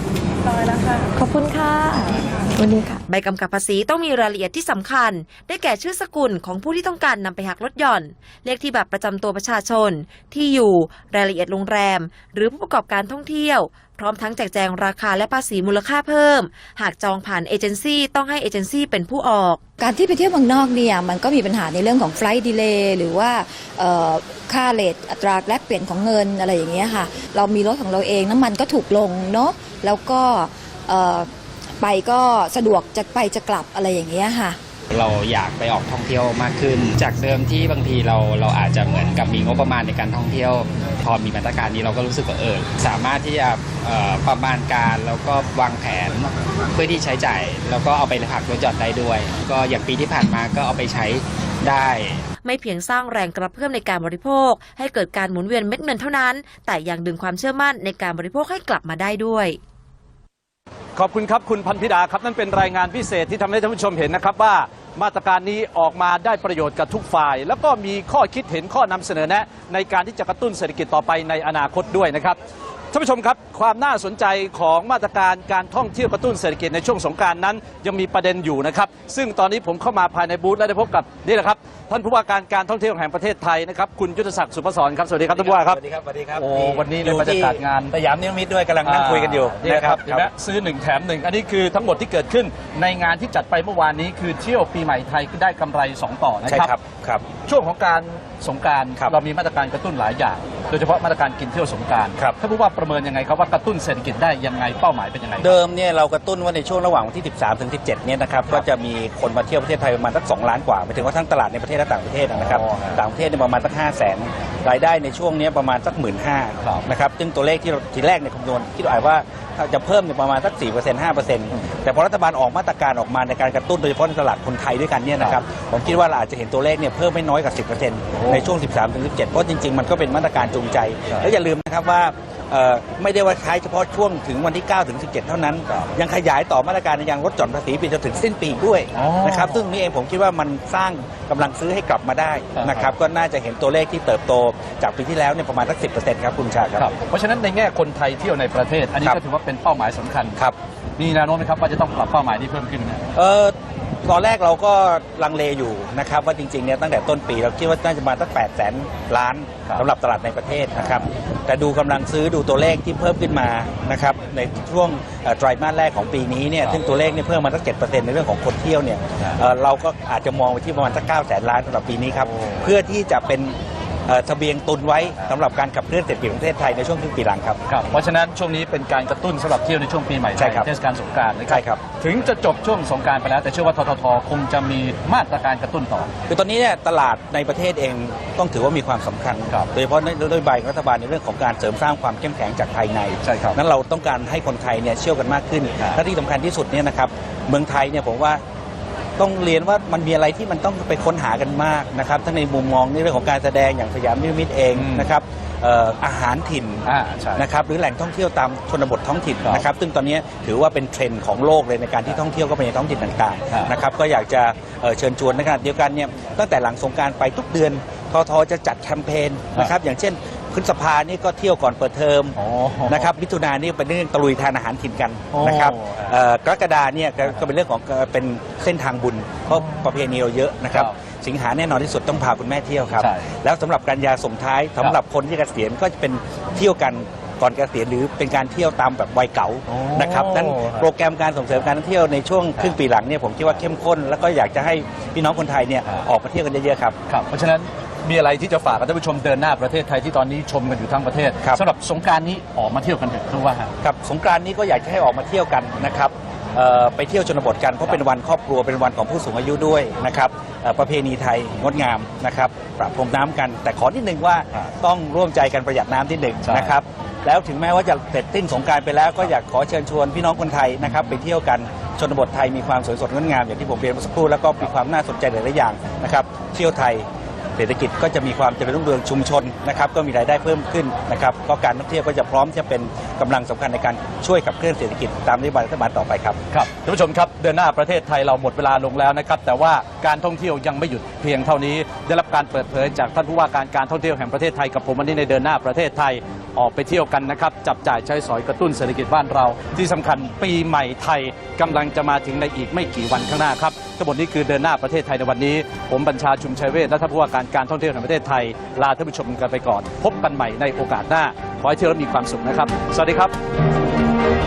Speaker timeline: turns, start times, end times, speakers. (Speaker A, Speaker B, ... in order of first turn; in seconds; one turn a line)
Speaker A: 0.5-3.0
Speaker B: 3.1-19.6
Speaker C: 19.8-34.6
Speaker D: 34.9-52.2
Speaker B: 52.4-59.6
Speaker E: 60.9-72.4
Speaker E: 72.9-85.8
Speaker F: 85.3-90.3
Speaker E: 86.3-87.9
Speaker E: 88.8-96.8
Speaker F: 96.5-97.2
Speaker E: 97.5-105.5
Speaker F: 105.4-146.9
Speaker E: 112.3-113.0
Speaker E: 128.2-128.5
Speaker E: 138.9-139.6
Speaker E: 142.5-142.9
Speaker E: 146.8-150.4
Speaker E: 151.0-153.0
Speaker F: 153.1-153.5
Speaker F: 154.1-177.6
Speaker E: 160.8-161.1
Speaker E: 172.3-172.7
Speaker E: 177.7-186.1
Speaker F: 180.4-180.7
Speaker F: 181.5-181.8
Speaker F: 186.3-198.4
Speaker E: 193.2-193.6
Speaker F: 199.2-206.9
Speaker E: 204.7-205.1
Speaker E: 206.8-207.4
Speaker F: 207.4-222.4
Speaker E: 222.3-223.1
Speaker F: 222.9-246.9
Speaker E: 225.3-226.2
Speaker E: 232.9-233.3
Speaker E: 239.7-240.9
Speaker E: 247.1-253.7
Speaker F: 253.8-286.4
Speaker E: 266.4-266.8
Speaker E: 270.9-271.1
Speaker E: 286.5-313.3